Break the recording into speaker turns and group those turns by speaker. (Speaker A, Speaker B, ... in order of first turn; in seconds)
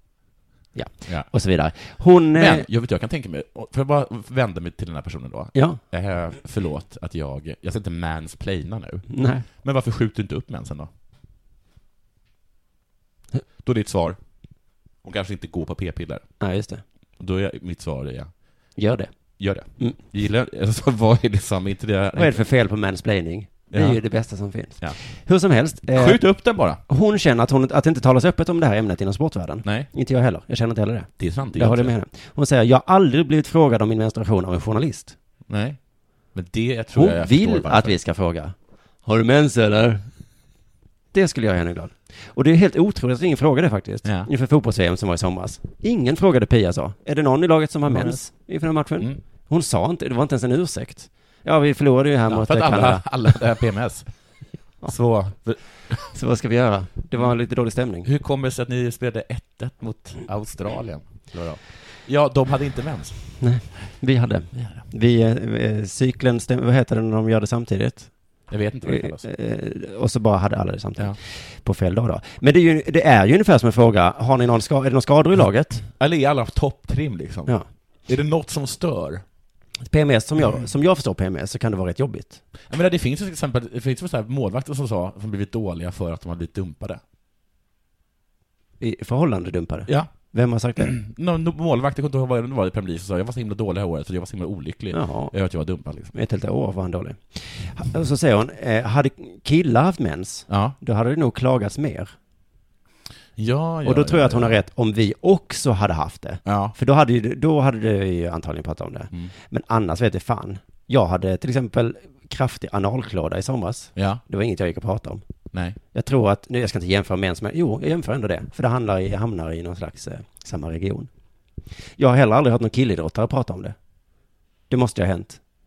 Speaker A: 0.7-2.6, 5.5-5.8, 9.1-9.4, 16.4-16.8, 18.8-20.0, 22.1-35.1, 36.9-40.1, 41.1-53.1, 56.1-58.1, 63.4-75.9, 79.8-82.4, 88.8-90.9, 94.9-95.3, 96.1-102.1, 103.8-115.2, 115.9-121.1, 122.0-123.8, 124.7-125.4
Speaker B: 2.3-10.9, 13.6-14.2, 15.0-16.3, 17.2-18.3, 19.4-22.5, 23.7-24.0, 25.9-26.8, 29.6-29.9, 31.2-31.9, 35.5-35.8, 36.3-38.0, 47.9-48.2, 52.3-54.1, 54.8-56.1, 58.0-63.2, 64.5-64.9, 68.5-69.2, 76.0-79.2, 82.7-87.0, 89.9-90.1, 90.8-96.1, 100.5-100.8, 103.3-104.6, 106.5-106.8, 114.0-114.2, 115.5-115.8